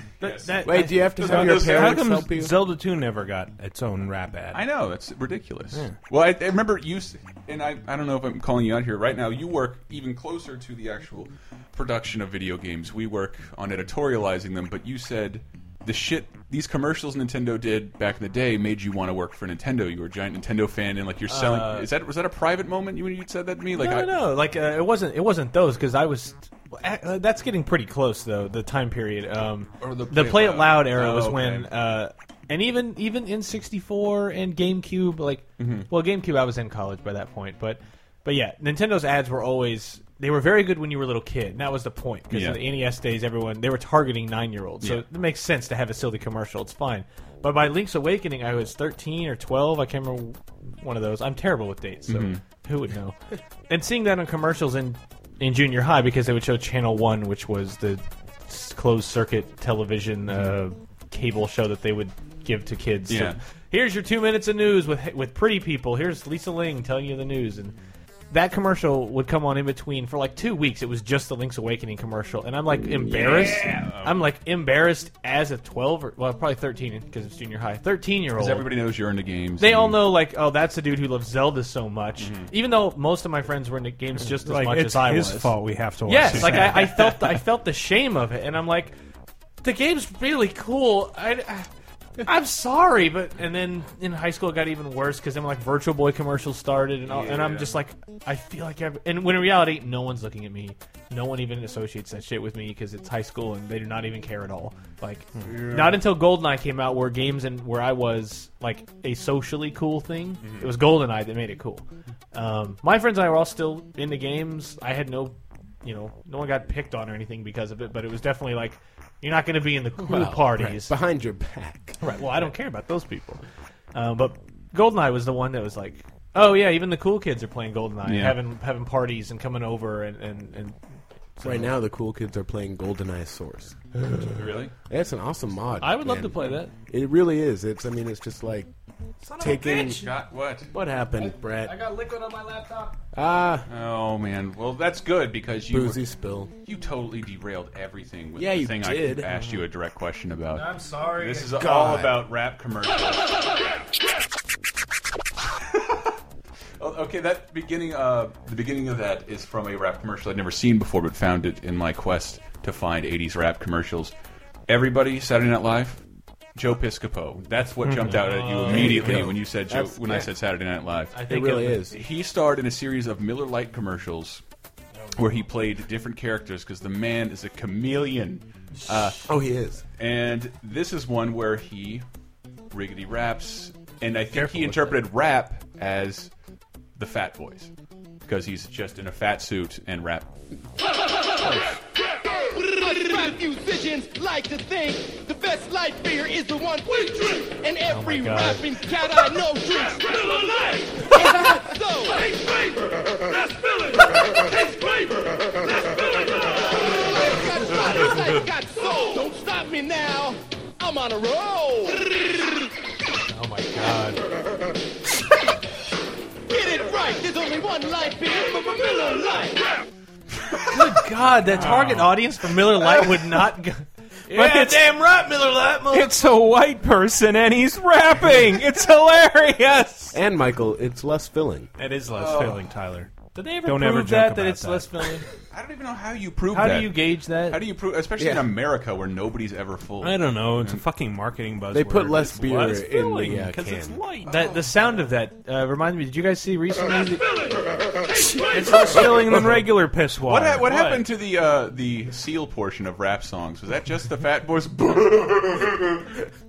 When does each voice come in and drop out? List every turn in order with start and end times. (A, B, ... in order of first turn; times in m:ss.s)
0:00.2-0:00.7 A
0:00.2-0:01.7 B
0:00.6-0:02.6 C
0:01.2-0:02.0 A
0:01.3-0:04.6 D
0:04.5-0:24.1 A
0:21.3-0:21.9 B
0:23.8-0:53.2 B
0:29.8-0:31.7 A
0:35.6-0:35.9 A
0:42.3-0:42.6 A
0:52.1-0:52.4 A
0:53.7-1:07.8 B
1:03.1-1:03.4 A
1:08.3-1:18.7 B
1:13.0-1:14.2 A
1:18.4-1:20.0 A
1:19.6-1:29.0 B
1:22.2-1:22.5 A
1:24.4-1:27.3 D
1:26.2-1:26.8 A
1:29.6-1:31.7 B
1:32.2-2:00.9 B
1:37.0-1:37.8 A
1:45.4-1:46.0 A
1:50.4-1:50.7 A
2:00.0-2:02.0 C
2:02.0-2:03.4 B
2:03.9-2:10.8 B
2:08.0-2:08.4 A
2:11.4-2:11.7 B
2:11.4-2:18.7 C
2:14.3-2:14.7 A
2:15.8-2:16.7 B
2:19.3-2:20.1 B
2:19.4-2:20.0 C
2:19.4-2:20.7 A
2:20.7-2:21.8 C
2:21.7-2:22.9 B
2:23.1-2:23.6 C
2:23.7-2:26.0 A
2:25.7-2:26.5 C
2:26.6-2:33.2 A
2:28.4-2:29.3 C
2:30.6-2:31.9 B
2:31.6-2:32.2 C
2:35.6-2:36.2 A
2:36.8-2:44.1 A
2:44.7-2:46.0 A
2:46.6-2:51.3 A
2:47.8-2:48.4 D
2:48.1-2:49.2 B
2:48.7-2:50.3 C
2:51.1-2:51.8 B
2:51.3-2:52.0 C
2:51.9-2:54.4 A
2:55.2-2:59.2 A
2:59.3-2:59.8 C
3:00.0-3:02.0 A
3:02.7-3:06.3 A
3:04.3-3:05.0 B
3:07.0-3:07.7 A
3:08.2-3:10.3 A
3:11.4-3:11.8 B
3:12.3-3:22.4 E
3:17.9-3:18.7 B
3:23.2-3:32.0 E
3:33.3-3:34.2 B
3:36.5-3:39.6 E
3:40.7-3:46.2 B
3:41.5-3:42.2 D
3:44.3-3:44.9 D
3:45.9-3:50.2 D
3:50.1-3:51.7 C
3:51.8-3:53.1 D
3:52.1-3:52.7 A
3:53.3-3:55.2 B
3:53.6-3:55.1 D
3:55.5-4:00.8 A
3:56.5-3:57.6 B
3:58.2-3:58.5 C
4:00.0-4:04.4 D
4:01.7-4:04.0 C
4:04.3-4:07.6 B
4:04.3-4:04.7 A
4:08.2-4:11.1 D
4:08.5-4:09.0 B
4:10.3-4:16.1 A